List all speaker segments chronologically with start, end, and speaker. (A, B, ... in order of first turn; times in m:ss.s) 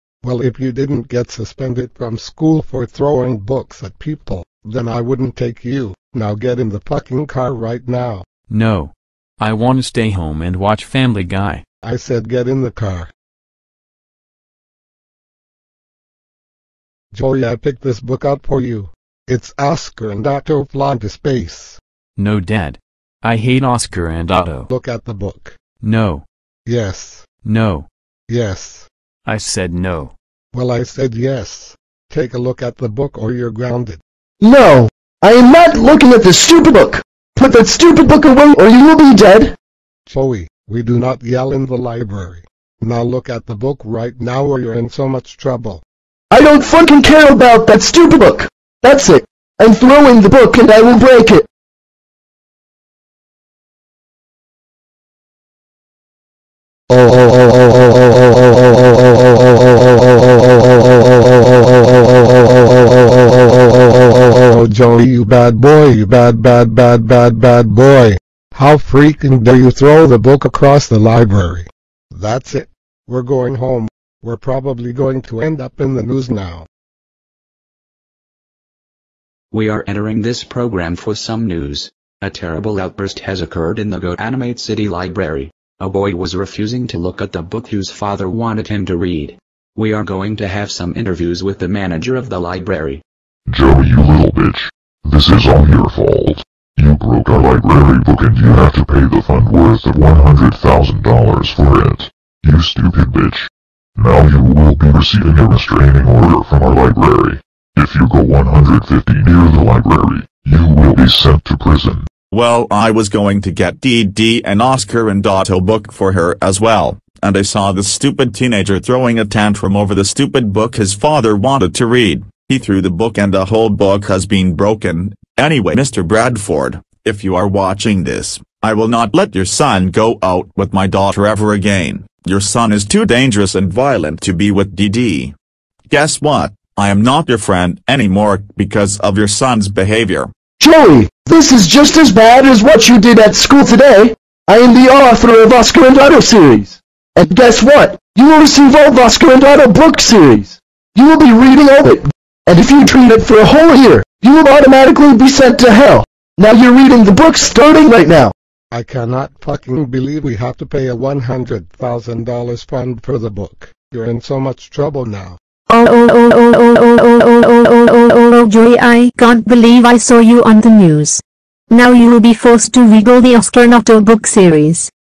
0:00.2-0:08.2 A
0:08.5-0:11.6 B
0:11.8-0:13.1 A
0:17.1-0:21.8 A
0:22.2-0:24.7 B
0:24.7-0:25.6 A
0:25.8-0:26.2 B
0:26.6-0:27.2 A
0:27.4-0:27.9 B
0:28.3-0:28.9 A
0:29.2-0:30.1 B
0:30.5-0:34.0 A
0:34.4-0:39.6 C
0:40.1-0:45.8 A
0:46.3-0:51.5 C
0:56.9-0:57.3 A
1:04.1-1:16.7 A
1:19.5-1:33.0 D
1:33.5-1:52.1 E
1:52.3-2:15.3 F
2:15.9-2:20.3 F
2:20.6-2:38.3 C
2:38.7-2:45.4 A
2:45.7-2:54.9 G